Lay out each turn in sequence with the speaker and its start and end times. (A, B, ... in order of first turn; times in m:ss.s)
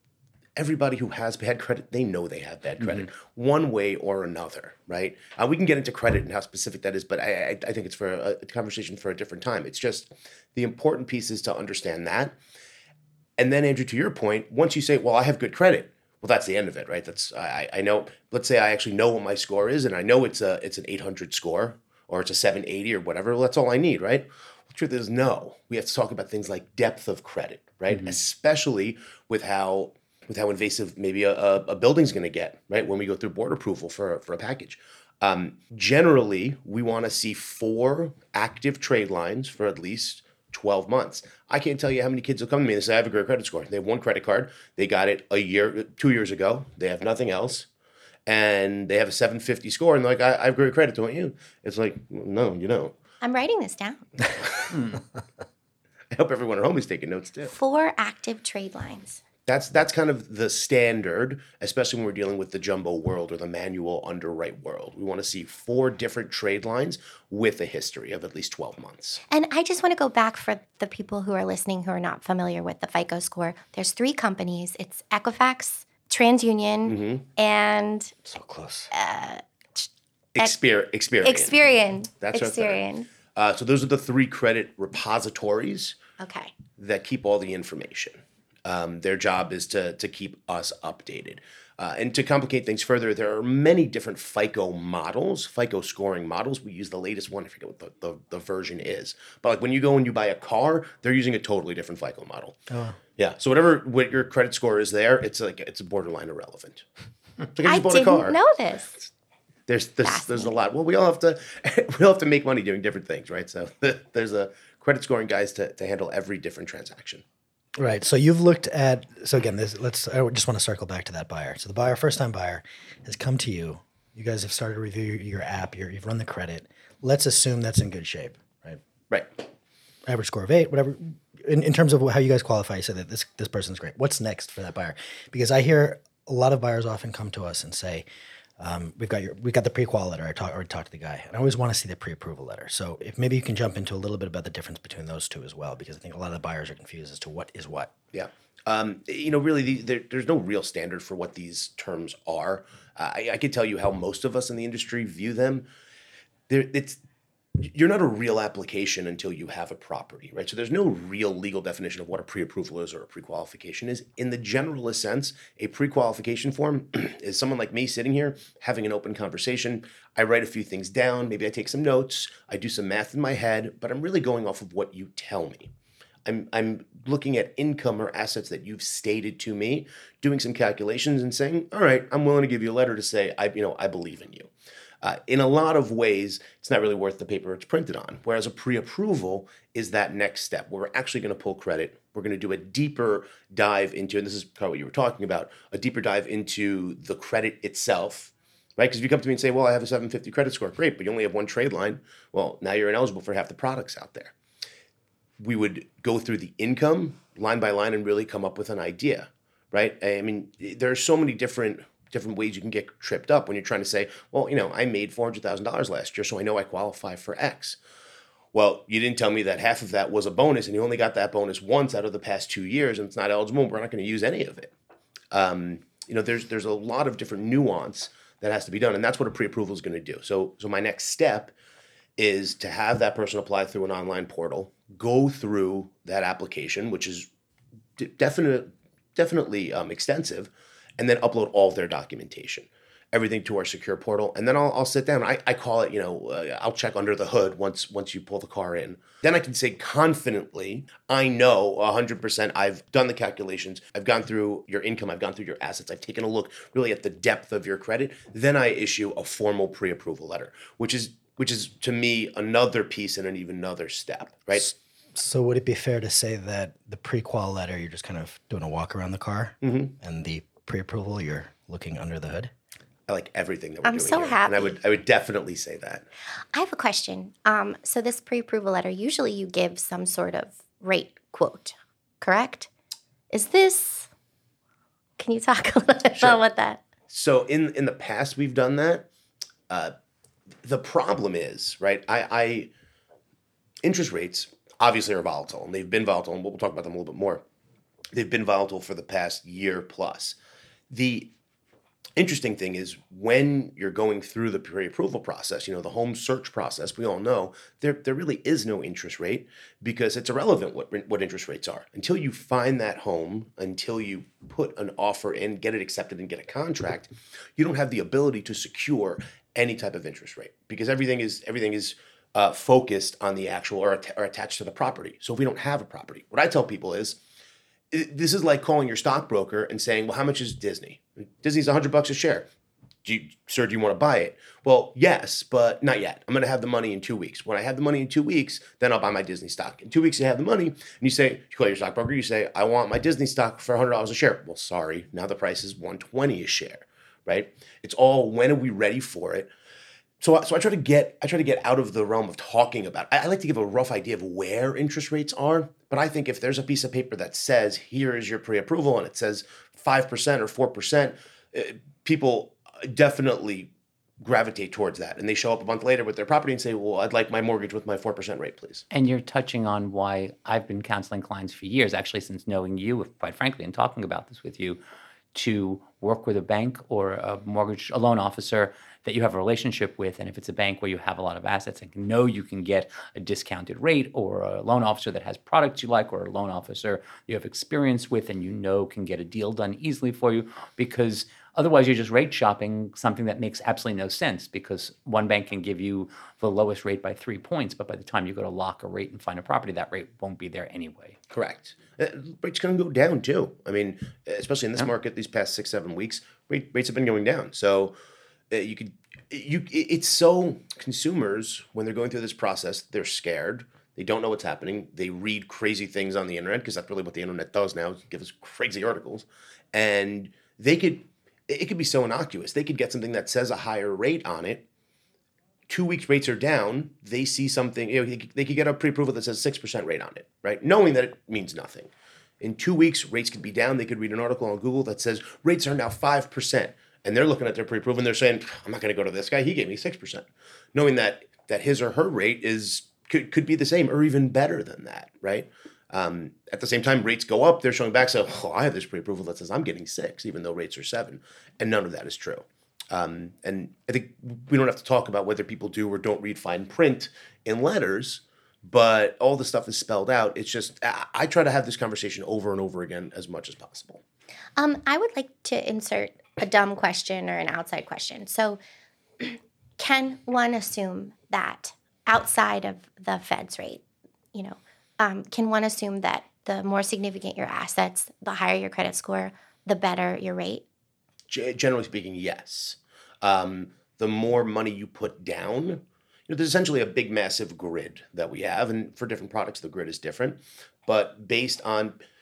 0:00.6-0:12.4 A
0:02.8-0:03.1 B
0:13.4-0:47.7 A
0:27.9-0:28.2 B
0:48.3-0:53.0 A
0:53.2-0:54.0 C
0:54.3-0:54.8 A
0:56.1-0:57.5 A
0:57.5-0:59.2 C
0:59.5-1:09.2 A
1:09.3-1:18.1 C
1:16.9-1:17.2 A
1:18.2-1:18.9 D
1:18.9-1:20.5 C
1:20.3-1:21.6 A
1:21.2-1:23.1 C
1:22.2-1:26.0 A
1:26.2-1:26.5 C
1:26.8-1:42.6 A
1:42.7-1:43.0 D
1:43.2-1:46.8 A
1:47.5-1:48.4 A
1:47.6-1:49.1 C
1:49.7-1:57.2 A
1:50.0-1:50.5 C
1:57.8-2:08.8 D
2:10.0-2:18.0 D
2:18.6-2:28.0 D
2:28.1-2:35.7 A
2:36.5-2:37.0 A
2:37.6-2:55.7 A
2:56.2-3:04.5 A
3:05.0-3:24.3 A
3:25.4-3:37.8 A
3:38.5-3:44.7 A
3:45.3-3:51.5 A
3:52.2-3:57.3 A
3:58.0-4:24.7 A
4:24.5-4:32.5 D
4:29.6-4:29.9 A
4:33.1-4:36.0 A
4:33.8-4:34.7 C
4:36.5-4:42.7 C
4:43.3-4:44.1 C
4:45.2-4:46.8 C
4:46.2-4:46.4 A
4:47.1-4:49.1 A
4:50.6-4:52.7 A
4:53.8-4:57.4 A
4:58.1-5:00.4 A
5:00.9-5:01.3 A
5:02.2-5:27.2 A
5:27.9-5:32.5 A
5:33.0-5:49.5 A
5:50.2-6:08.9 A
6:08.9-6:14.8 B
6:15.3-6:41.2 B
6:41.3-6:48.0 A
6:48.5-7:04.6 A
7:05.7-7:44.0 A
7:44.6-7:48.6 C
7:49.2-8:00.6 C
8:01.3-8:12.0 A